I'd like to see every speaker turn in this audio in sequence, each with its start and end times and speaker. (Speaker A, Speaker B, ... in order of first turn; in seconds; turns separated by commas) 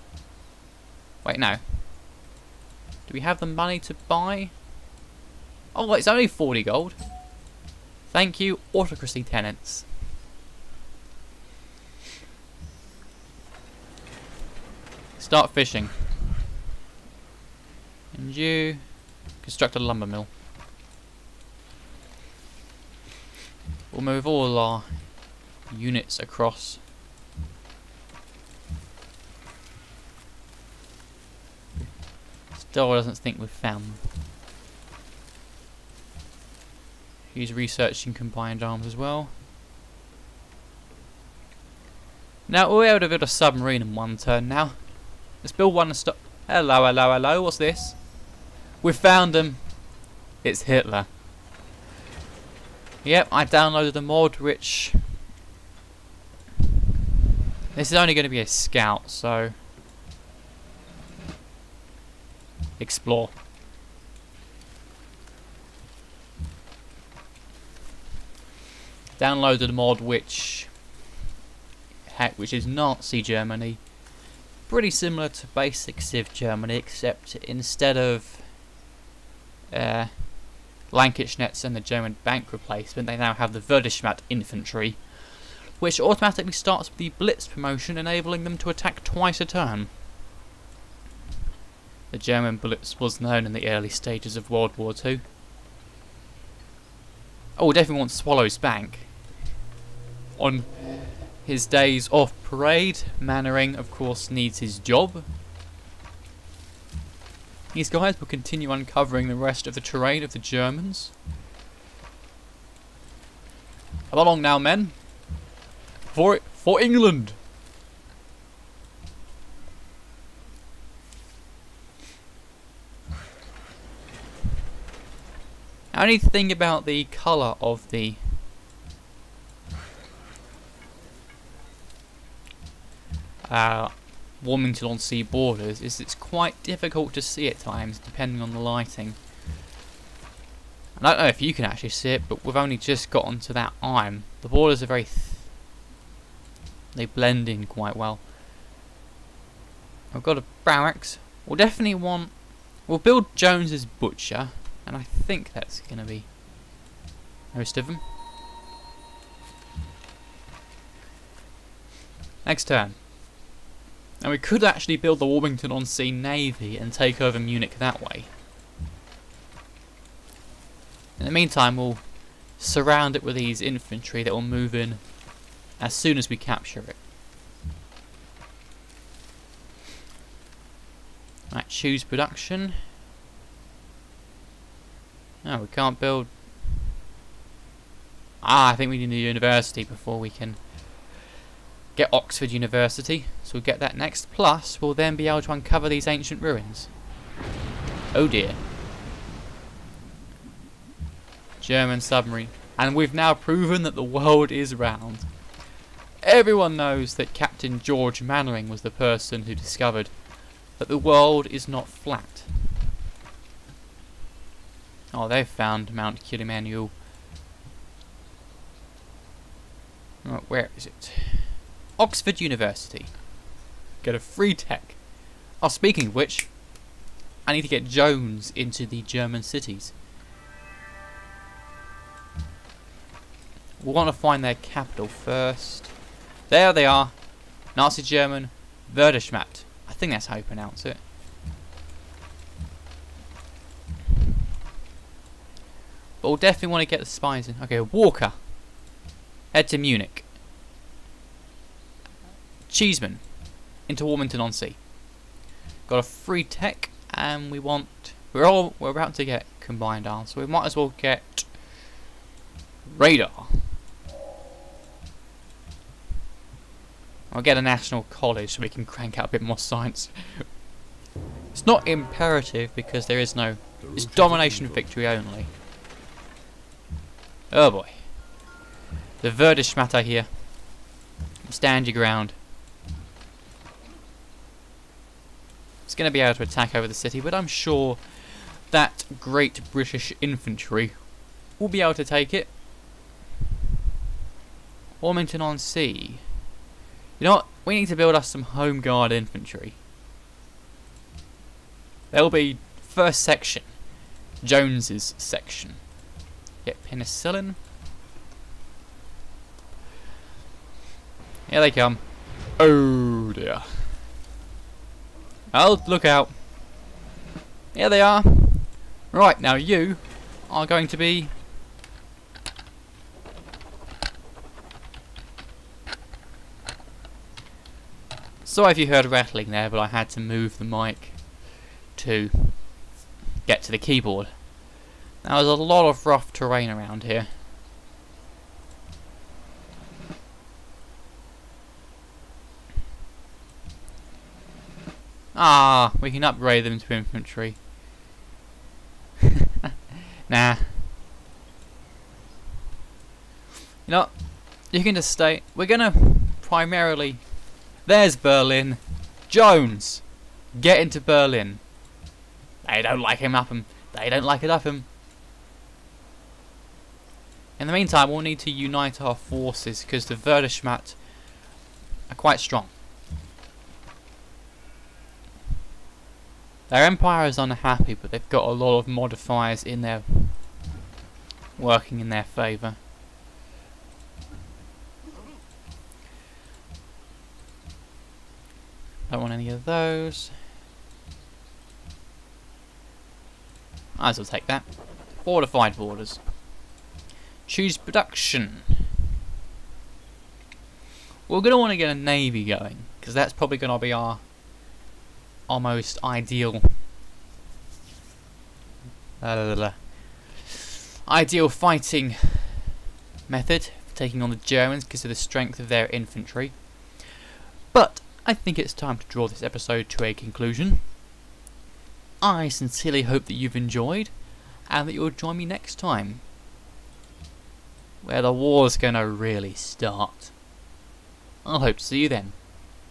Speaker A: 1.2-1.9, Speaker A: 3.0-4.6, Speaker A: 5.7-7.0, Speaker A: 8.1-9.9, Speaker A: 15.2-16.3, Speaker A: 18.1-20.3, Speaker A: 23.9-26.8, Speaker A: 32.5-34.1, Speaker A: 37.3-39.3, Speaker A: 42.5-48.1, Speaker A: 48.8-49.8, Speaker A: 50.4-51.1, Speaker A: 53.0-55.2, Speaker A: 57.7-59.5, Speaker A: 62.8-63.3, Speaker A: 69.2-70.8, Speaker A: 72.1-73.8, Speaker A: 74.7-78.6, Speaker A: 79.7-89.9, Speaker A: 92.1-95.2, Speaker A: 97.5-99.2, Speaker A: 100.4-105.2, Speaker A: 107.7-111.2, Speaker A: 114.1-115.0, Speaker A: 116.1-117.4, Speaker A: 125.9-128.4, Speaker A: 133.5-139.2, Speaker A: 141.0-145.5, Speaker A: 146.9-148.2, Speaker A: 150.1-156.3, Speaker A: 157.5-158.0, Speaker A: 162.4-163.0, Speaker A: 164.2-168.3, Speaker A: 171.2-175.2, Speaker A: 175.8-177.0, Speaker A: 181.5-182.8, Speaker A: 185.4-186.4, Speaker A: 188.4-190.7, Speaker A: 191.9-196.9, Speaker A: 198.1-198.6, Speaker A: 201.6-205.3, Speaker A: 206.2-212.7, Speaker A: 215.1-217.0, Speaker A: 220.2-223.3, Speaker A: 224.0-226.8, Speaker A: 227.4-229.9, Speaker A: 233.8-241.0, Speaker A: 246.2-248.6, Speaker A: 249.5-250.3, Speaker A: 252.7-254.8, Speaker A: 255.8-261.7, Speaker A: 262.9-263.8, Speaker A: 267.3-270.6, Speaker A: 271.5-275.5, Speaker A: 277.5-278.2, Speaker A: 279.2-280.6, Speaker A: 281.4-282.4, Speaker A: 285.9-292.5, Speaker A: 295.0-296.3, Speaker A: 297.2-299.8, Speaker A: 302.1-305.9, Speaker A: 306.6-307.6, Speaker A: 311.5-313.9, Speaker A: 315.5-316.4, Speaker A: 317.7-321.3, Speaker A: 328.4-332.9, Speaker A: 333.4-334.6, Speaker A: 335.2-337.3, Speaker A: 345.3-347.6, Speaker A: 350.3-350.9, Speaker A: 353.9-361.7, Speaker A: 362.6-364.9, Speaker A: 367.6-371.3, Speaker A: 372.1-372.7, Speaker A: 376.7-380.5, Speaker A: 381.6-382.8, Speaker A: 389.1-390.4, Speaker A: 393.9-396.2, Speaker A: 397.4-398.8, Speaker A: 401.3-404.2, Speaker A: 405.5-406.8, Speaker A: 409.2-410.4, Speaker A: 411.0-412.7, Speaker A: 413.3-417.1, Speaker A: 417.7-420.9, Speaker A: 422.2-426.2, Speaker A: 428.0-430.4, Speaker A: 431.4-432.4